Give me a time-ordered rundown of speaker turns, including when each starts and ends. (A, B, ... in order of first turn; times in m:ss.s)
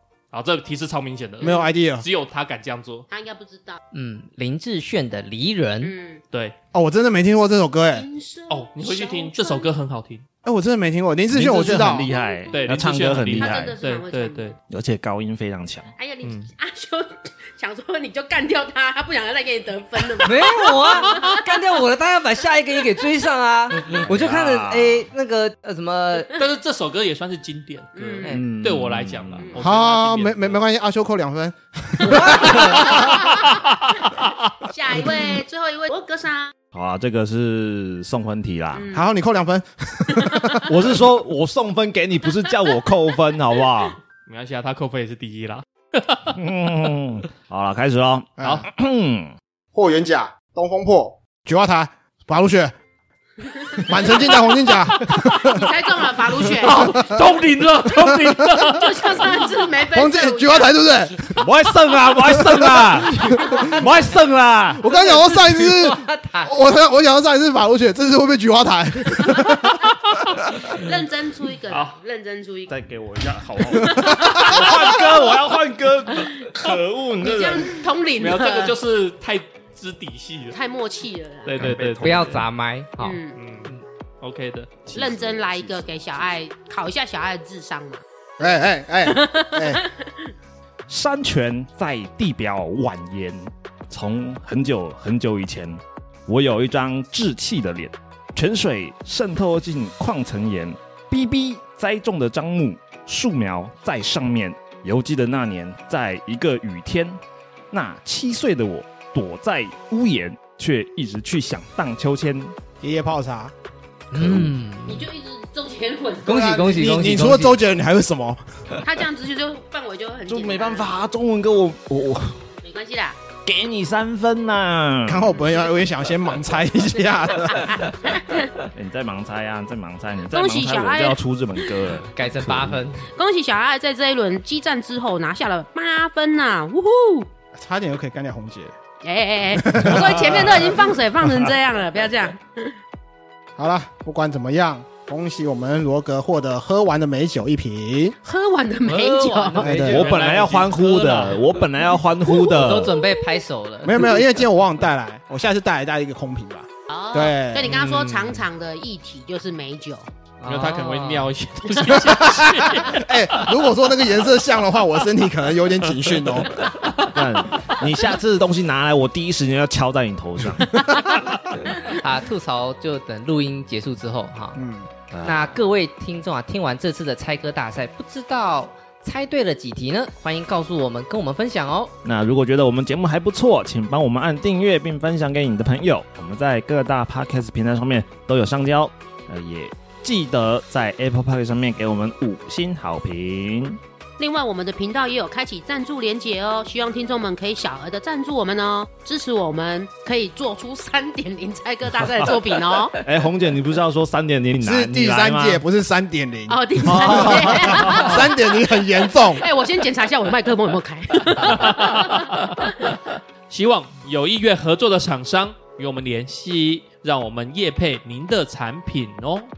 0:00.3-0:03.1 A
0:01.4-0:02.0 B
0:03.1-0:03.8 C
0:03.9-0:05.9 D
0:05.8-0:06.2 C
0:06.7-0:08.1 B
0:07.9-0:09.7 C
0:08.5-0:10.2 A
0:10.4-0:12.1 B
0:11.3-0:13.8 E
0:11.6-0:14.6 C
0:12.5-0:14.6 A
0:14.7-0:15.9 E
0:16.0-0:21.5 C
0:16.2-0:16.5 A
0:20.2-0:26.4 D
0:24.0-0:25.1 E
0:26.3-0:30.6 A
0:28.0-0:28.4 C
0:28.3-0:29.5 E
0:29.6-0:33.3 B
0:32.0-0:36.6 C
0:32.3-0:33.6 A
0:32.4-0:32.8 D
0:36.7-0:38.9 E
0:38.7-0:39.1 C
0:38.9-0:40.7 B
0:40.2-0:40.6 C
0:40.7-0:44.0 E
0:44.2-0:46.4 A
0:46.3-0:49.4 E
0:48.4-0:48.7 B
0:49.7-0:52.7 B
0:53.6-0:54.4 C
0:53.8-0:55.7 B
0:55.1-0:57.0 C
0:56.6-0:59.2 A
0:56.7-0:58.7 E
0:56.7-0:57.2 B
0:57.9-0:58.7 B
0:58.7-1:00.8 C
0:59.9-1:01.4 B
1:01.3-1:04.8 E
1:02.2-1:03.6 B
1:03.6-1:03.8 C
1:04.8-1:09.8 B
1:04.9-1:06.5 D
1:10.7-1:12.8 C
1:11.7-1:12.0 A
1:12.7-1:17.8 E
1:13.6-1:15.3 C
1:14.0-1:14.6 B
1:16.2-1:18.8 C
1:18.2-1:20.6 A
1:20.5-1:21.7 C
1:21.5-1:22.4 A
1:21.6-1:22.4 E
1:22.0-1:23.8 D
1:23.0-1:23.4 C
1:23.4-1:24.8 A
1:24.9-1:25.9 E
1:24.9-1:28.0 C
1:28.4-1:29.8 B
1:29.0-1:30.3 C
1:30.9-1:47.2 E
1:47.7-1:52.5 E
1:52.8-1:53.5 B
1:54.1-1:55.1 D
1:54.2-1:54.5 E
1:54.9-1:57.0 C
1:56.3-1:57.6 D
1:56.7-1:58.4 B
1:58.8-2:00.9 C
2:00.3-2:02.4 E
2:02.6-2:03.2 C
2:03.4-2:05.3 E
2:05.1-2:07.8 B
2:07.5-2:08.7 C
2:08.8-2:12.8 E
2:10.3-2:11.2 C
2:12.1-2:13.0 D
2:13.1-2:17.3 C
2:17.6-2:18.7 B
2:19.0-2:22.8 C
2:19.5-2:20.9 B
2:20.1-2:20.4 E
2:23.6-2:28.2 B
2:28.2-2:29.7 C
2:28.9-2:31.5 D
2:29.6-2:30.1 B
2:29.8-2:30.8 A
2:29.9-2:33.0 E
2:32.2-2:34.2 D
2:33.8-2:37.7 B
2:36.9-2:40.1 C
2:37.6-2:38.5 A
2:40.4-2:41.3 D
2:40.5-2:43.6 A
2:42.0-2:46.5 B
2:46.0-2:47.0 A
2:47.1-2:51.2 E
2:51.8-2:54.6 D
2:54.6-2:54.9 B
2:55.1-2:55.6 E
2:55.2-3:02.0 D
3:02.0-3:13.8 E
3:14.2-3:23.0 C
3:23.0-3:25.6 E
3:24.6-3:29.5 B
3:26.5-3:32.9 C
3:26.8-3:28.1 E
3:31.4-3:32.9 A
3:33.5-3:39.5 A